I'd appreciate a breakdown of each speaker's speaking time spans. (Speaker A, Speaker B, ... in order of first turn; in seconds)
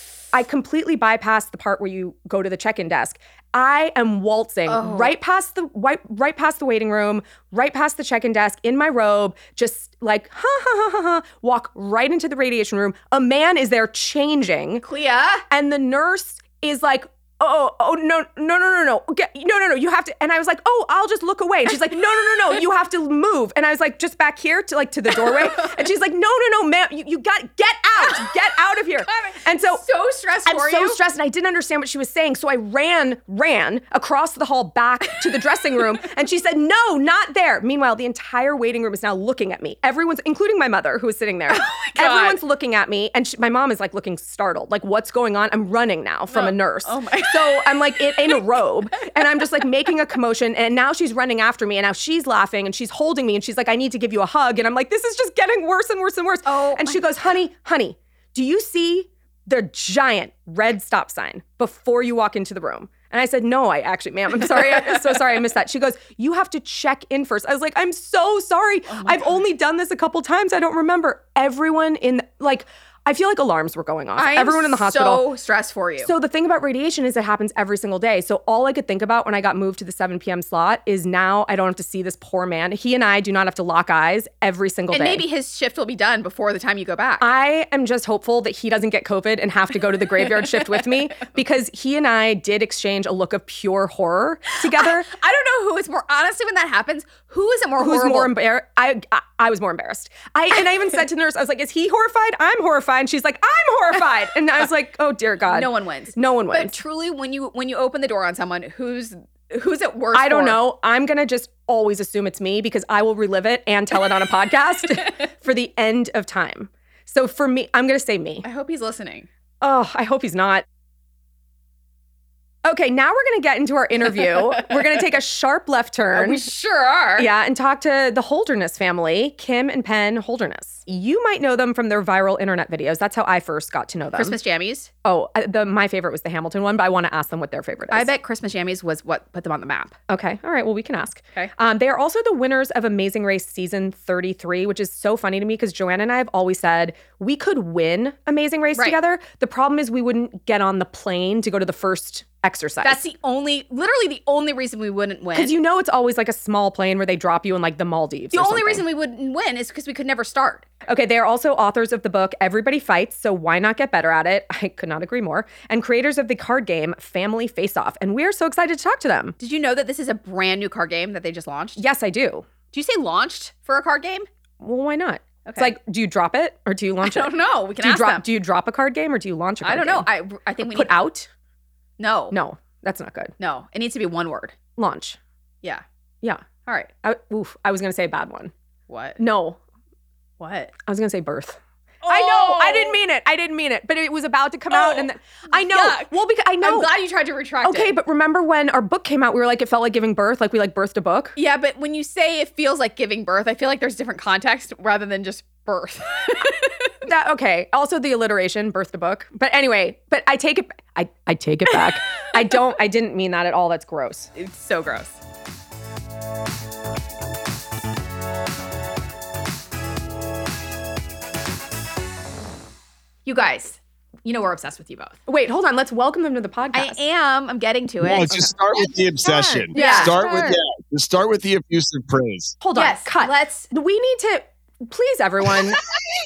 Speaker A: 0.3-14.8, 15.5-29.8, 30.4-75.3, 76.0-85.2, 87.2-95.1, 97.8-106.8, 110.1-118.4, 119.6-120.6, 122.6-126.5, 127.2-134.4, 135.0-138.1, 140.1-153.0, 155.3-158.8, 160.8-169.3, 171.8-172.4, 174.6-180.1, 180.7-181.3, 182.3-183.3, 184.8-185.2, 187.0-188.5, 189.2-189.6, 190.8-196.9, 197.6-201.3, 207.0-214.3, 225.3-227.0, 229.7-230.6, 232.6-235.8
Speaker B: 4.7-5.1, 14.8-15.4, 25.1-25.8, 28.0-28.3, 29.1-31.0, 41.5-42.4, 46.3-48.4, 49.0-49.4, 56.5-57.0, 68.9-69.4, 74.2-76.1, 84.9-87.2, 90.2-91.3, 94.7-98.3, 105.5-110.6, 118.4-119.3, 126.1-127.3, 134.1-134.9, 137.9-139.9, 152.8-155.5, 158.3-160.7, 169.4-171.8, 172.7-174.3, 175.4-175.7, 177.0-178.2, 179.6-180.9, 182.0-182.4, 183.4-184.5, 188.9-189.2, 190.4-190.7, 192.0-193.0, 194.7-197.9, 201.3-206.9, 211.7-212.0, 214.3-215.2, 223.2-225.2, 226.7-228.4, 229.2-230.2, 232.7-233.7
Speaker C: 228.0-232.6